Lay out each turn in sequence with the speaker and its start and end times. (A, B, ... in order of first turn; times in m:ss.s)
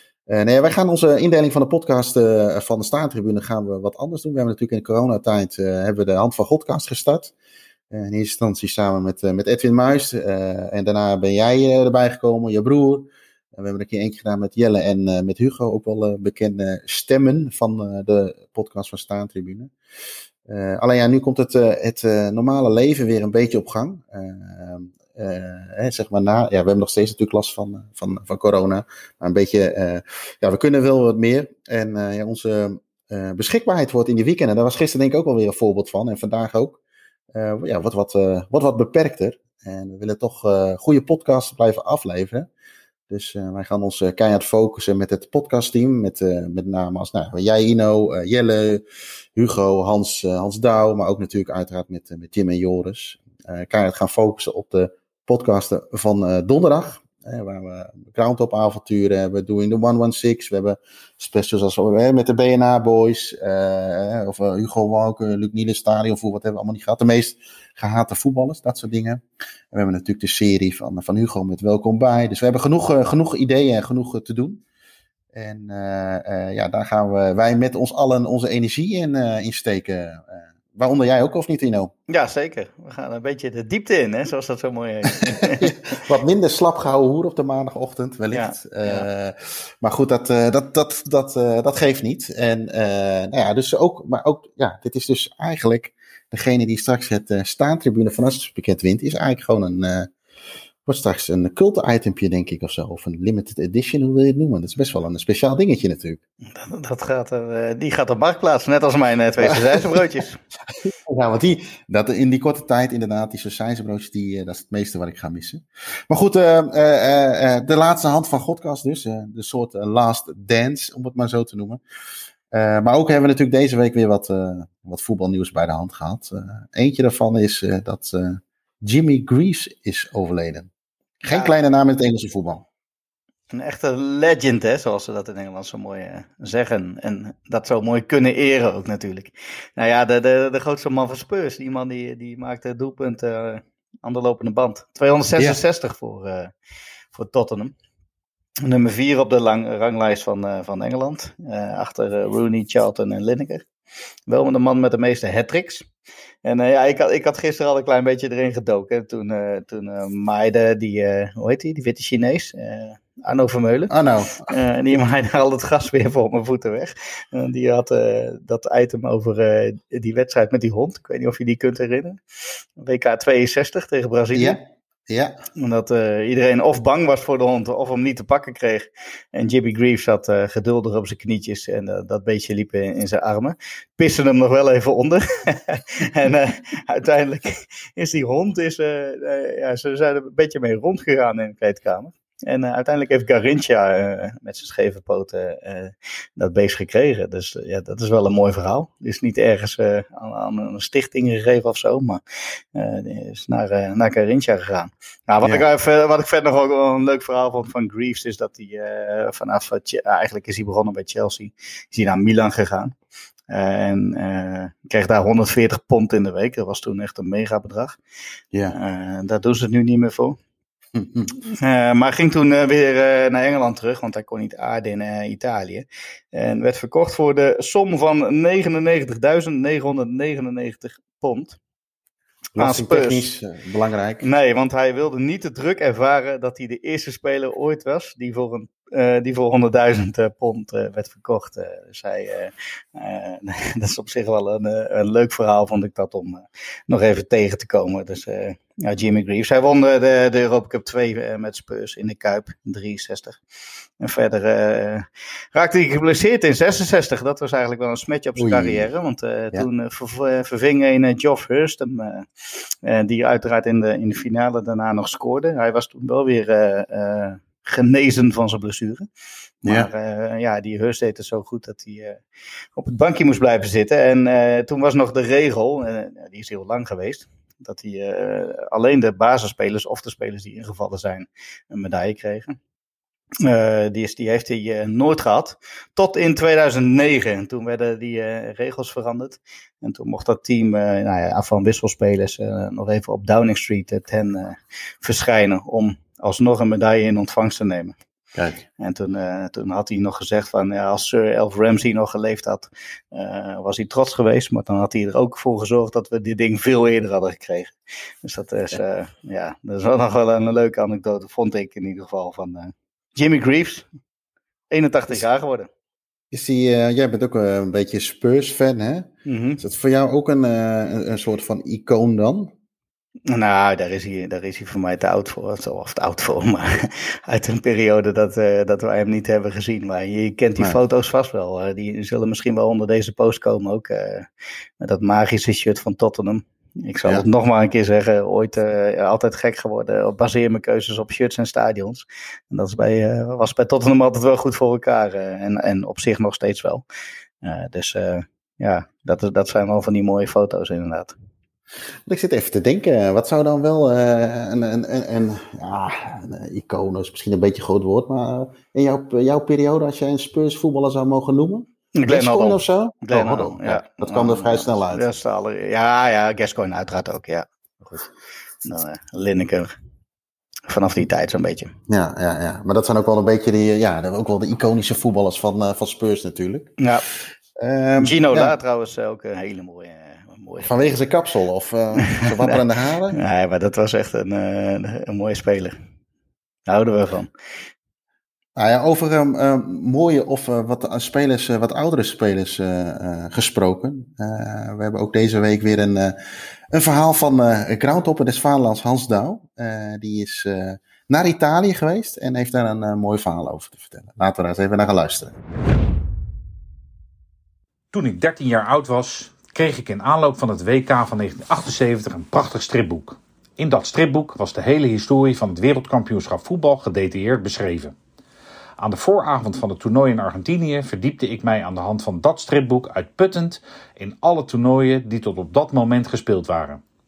0:00.3-0:07.3 A
0:07.9-0:19.7 A
0:20.5-0:36.8 A
0:37.3-0:42.5 A
0:43.1-0:48.8 A
0:49.3-1:09.2 A
1:09.7-1:14.6 A
1:15.3-1:21.9 A
1:22.1-1:25.7 B
1:25.4-1:40.1 A
1:28.3-1:29.0 B
1:40.8-1:46.2 A
1:46.5-1:50.4 B
1:49.4-1:50.0 A
1:50.7-2:01.8 A
2:02.5-2:10.7 A
2:11.2-2:12.6 A
2:11.3-2:11.5 B
2:13.5-2:26.5 B
2:27.1-2:27.7 B
2:28.6-2:33.6 B
2:34.3-2:35.9 B
2:36.4-2:43.9 B
2:43.9-2:44.5 A
2:44.5-2:52.2 B
2:52.8-2:54.6 B
2:54.3-2:55.4 A
2:55.6-3:22.2 B
3:22.7-3:32.9 B
3:33.5-3:38.0 B
3:38.7-3:40.4 B
3:40.9-3:41.3 A
3:41.5-3:51.6 B
3:52.6-3:54.2 A
3:52.6-3:53.3 B
3:54.2-4:13.4 B
4:14.0-4:22.3 B
4:18.4-4:18.9 A
4:22.8-4:29.0 B
4:29.6-4:32.2 B
4:29.6-4:29.9 A
4:32.8-4:42.6 B
4:43.4-4:58.0 B
4:58.3-4:58.6 A
4:58.8-5:13.8 B
5:14.7-5:15.7 B
5:16.3-5:22.5 A
5:19.2-5:19.6 B
5:23.3-5:34.3 B
5:34.8-5:46.8 B
5:47.4-5:51.1 B
5:52.0-6:05.0 A
6:01.9-6:07.5 B
6:08.6-6:09.7 B
6:10.7-6:11.7 B
6:11.9-6:16.7 A
6:17.6-6:18.6 A
6:18.0-6:20.8 B
6:20.6-6:23.2 A
6:22.0-6:22.6 B
6:23.1-6:25.8 B
6:26.7-6:27.3 B
6:28.6-6:36.2 A
6:36.7-6:45.4 A
6:47.9-6:57.9 C
6:58.8-7:06.8 C